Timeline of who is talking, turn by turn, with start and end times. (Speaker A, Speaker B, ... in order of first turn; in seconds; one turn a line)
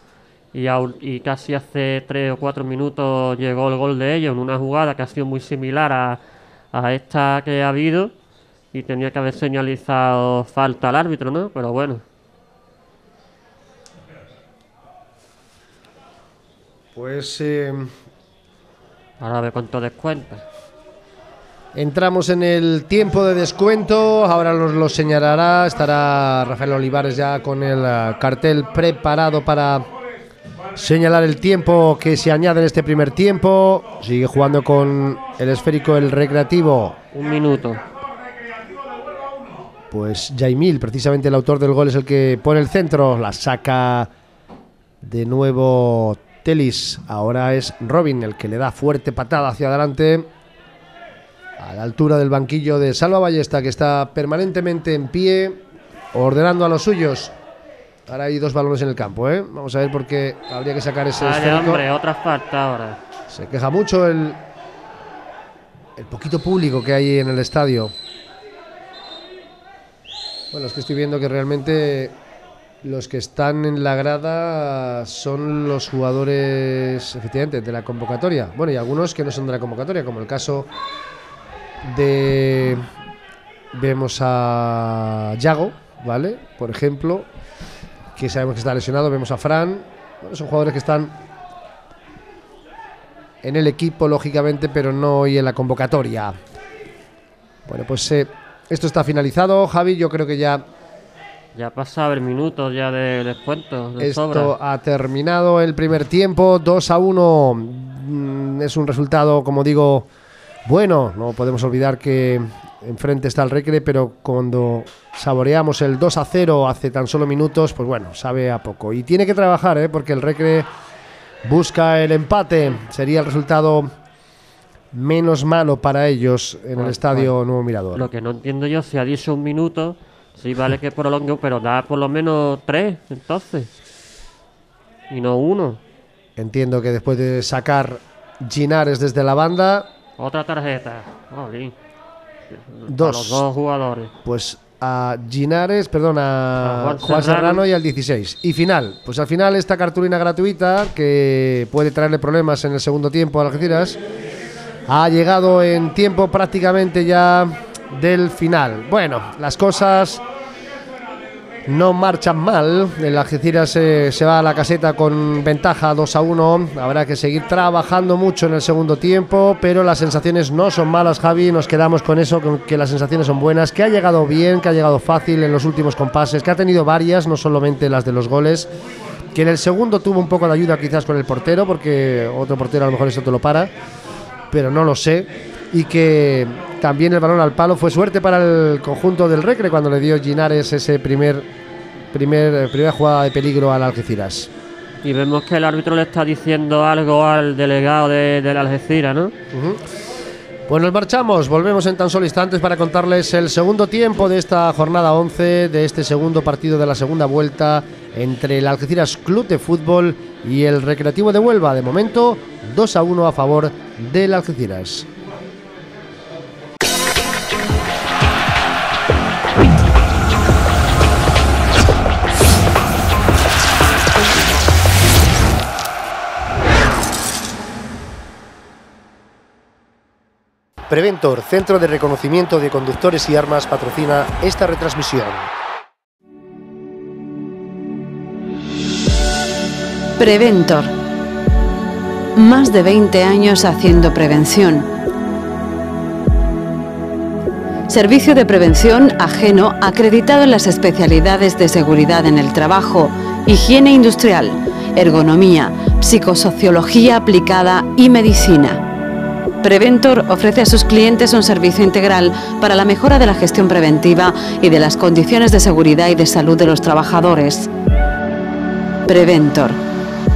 Speaker A: 0.5-6.2
Speaker A: 6.7-8.1
Speaker A: 8.7-12.0
Speaker B: 16.9-17.9
Speaker A: 19.2-20.4
Speaker B: 21.7-29.9
Speaker B: 30.7-37.0
Speaker A: 37.1-37.8
Speaker B: 39.9-44.1
Speaker B: 45.0-50.3
Speaker B: 51.6-55.6
Speaker B: 56.1-57.3
Speaker B: 58.1-61.8
Speaker A: 61.1-63.0
Speaker B: 63.3-64.4
Speaker B: 66.0-67.9
Speaker B: 70.5-72.1
Speaker B: 72.8-80.7
Speaker B: 81.8-82.8
Speaker B: 83.7-87.3
Speaker B: 88.2-91.1
Speaker B: 93.4-96.3
Speaker B: 97.7-100.6
Speaker A: 101.5-104.5
Speaker B: 104.0-110.1
Speaker B: 110.7-120.7
Speaker B: 121.4-123.9
Speaker B: 124.9-128.1
Speaker A: 126.7-127.3
Speaker A: 127.9-133.7
Speaker A: 135.1-135.8
Speaker B: 136.4-139.9
Speaker A: 140.2-141.8
Speaker A: 142.5-144.1
Speaker B: 142.9-143.4
Speaker B: 144.2-154.0
Speaker A: 146.6-147.6
Speaker B: 154.9-160.2
Speaker B: 161.7-178.7
Speaker B: 179.3-183.7
Speaker B: 184.5-191.5
Speaker B: 192.1-194.5
Speaker A: 195.0-199.3
Speaker B: 199.5-199.8
Speaker B: 200.7-215.1
Speaker B: 230.9-235.5
Speaker C: 240.2-240.9
Speaker C: 242.3-244.9
Speaker C: 247.9-258.8
Speaker C: 259.6-267.7
Speaker C: 269.1-269.8